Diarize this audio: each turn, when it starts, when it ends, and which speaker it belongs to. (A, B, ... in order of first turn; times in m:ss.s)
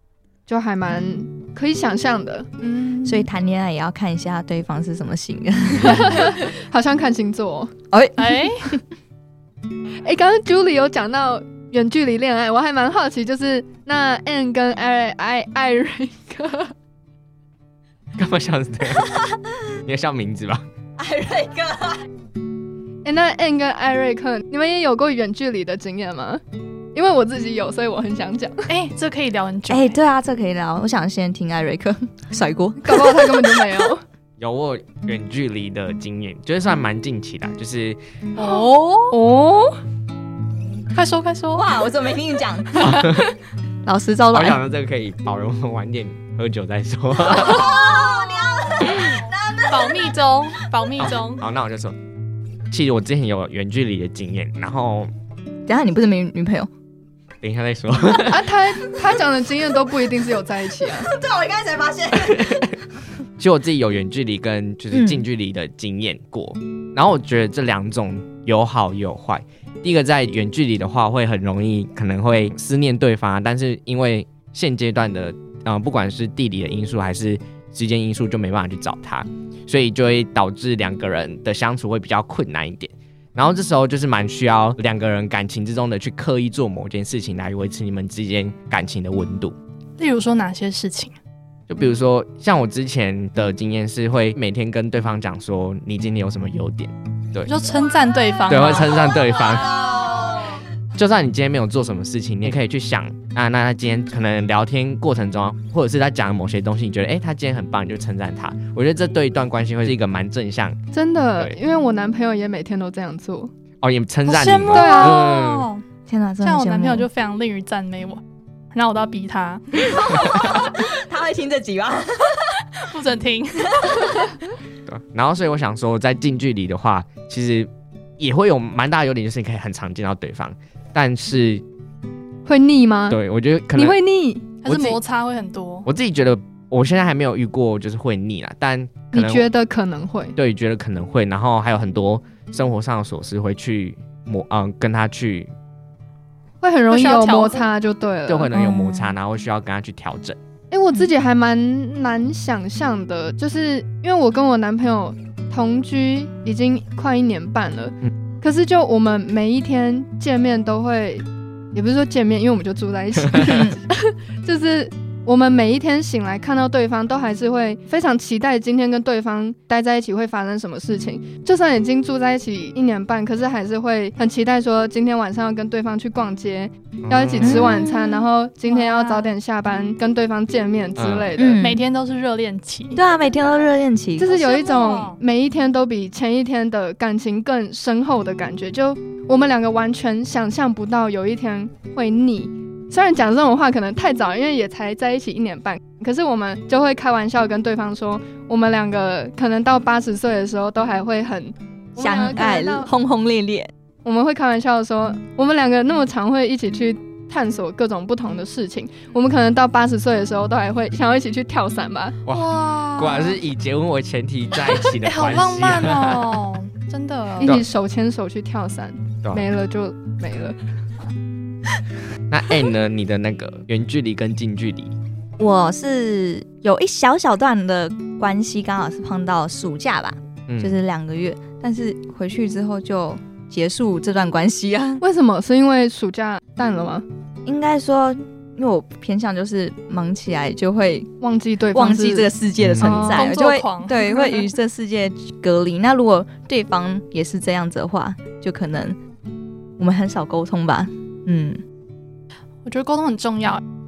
0:00.5-0:02.5 A
0:02.6-0:03.0 B
0:03.0-0:06.4 C
0:05.8-0:07.7 A
0:07.9-0:08.7 C
0:08.2-0:08.8 B
0:10.0-0:16.7 A
0:18.2-0:19.1 D
0:19.0-0:19.3 C
0:19.8-0:20.6 D
0:21.0-0:22.0 C
0:23.0-0:26.4 A
0:26.9-0:28.7 A
0:28.7-0:30.0 B
0:29.7-0:33.8 C
0:32.8-0:34.0 A
0:34.4-0:38.0 D
0:38.4-0:39.2 B
0:39.1-0:39.4 C
0:40.9-0:41.7 B
0:41.5-0:43.2 C
0:42.8-0:43.2 D
0:43.8-0:44.6 C
0:44.3-0:47.7 D
0:47.2-0:50.1 C
0:49.7-0:51.4 B
0:51.0-0:52.0 D
0:52.7-0:55.1 D
0:55.6-0:56.7 C
0:57.4-0:58.6 D
0:58.3-1:01.1 A
1:00.8-1:02.7 C
1:02.2-1:02.6 D
1:03.4-1:29.5 D
1:04.9-1:05.2 C
1:30.0-1:31.1 B
1:31.7-1:37.5 D
1:37.4-1:39.0 B
1:38.5-1:50.8 D
1:50.9-1:53.5 A
1:53.8-1:55.7 D
1:54.3-1:55.8 B
1:54.7-1:55.2 A
1:56.1-1:57.1 C
1:56.4-1:58.2 B
1:58.7-2:00.2 B
1:59.9-2:02.4 C
2:02.8-2:03.9 B
2:03.8-2:04.3 C
2:04.8-2:11.6 D
2:12.4-2:13.2 A
2:13.1-2:14.0 D
2:13.7-2:14.6 A
2:14.6-2:15.9 B
2:14.6-2:15.0 D
2:15.8-2:19.5 D
2:19.1-2:20.3 A
2:20.4-2:25.5 D
2:26.6-2:28.5 A
2:26.9-2:27.7 B
2:28.3-2:30.4 D
2:28.5-2:29.2 C
2:30.7-3:01.6 A
2:43.4-2:43.8 C
2:57.0-2:57.8 D
2:57.4-2:58.2 C
2:58.6-2:59.3 B
3:01.0-3:01.3 D
3:01.3-3:01.8 C
3:01.6-3:03.0 B
3:02.9-3:04.3 C
3:04.2-3:22.9 A
3:04.2-3:05.2 B
3:22.0-3:23.7 C
3:24.0-3:33.2 A
3:32.2-3:36.3 D
3:32.3-3:32.9 B
3:35.0-3:37.5 B
3:37.4-3:40.6 A
3:37.4-3:37.6 D
3:42.3-3:44.9 D
3:45.4-3:55.0 C
3:50.5-3:50.7 D
3:55.0-3:57.0 A
3:57.4-4:01.1 C
4:01.2-4:02.3 A
4:01.7-4:09.0 C
4:02.6-4:03.0 D
4:02.8-4:03.3 A
4:02.8-4:04.5 B
4:09.8-4:11.6 C
4:12.6-4:13.6 B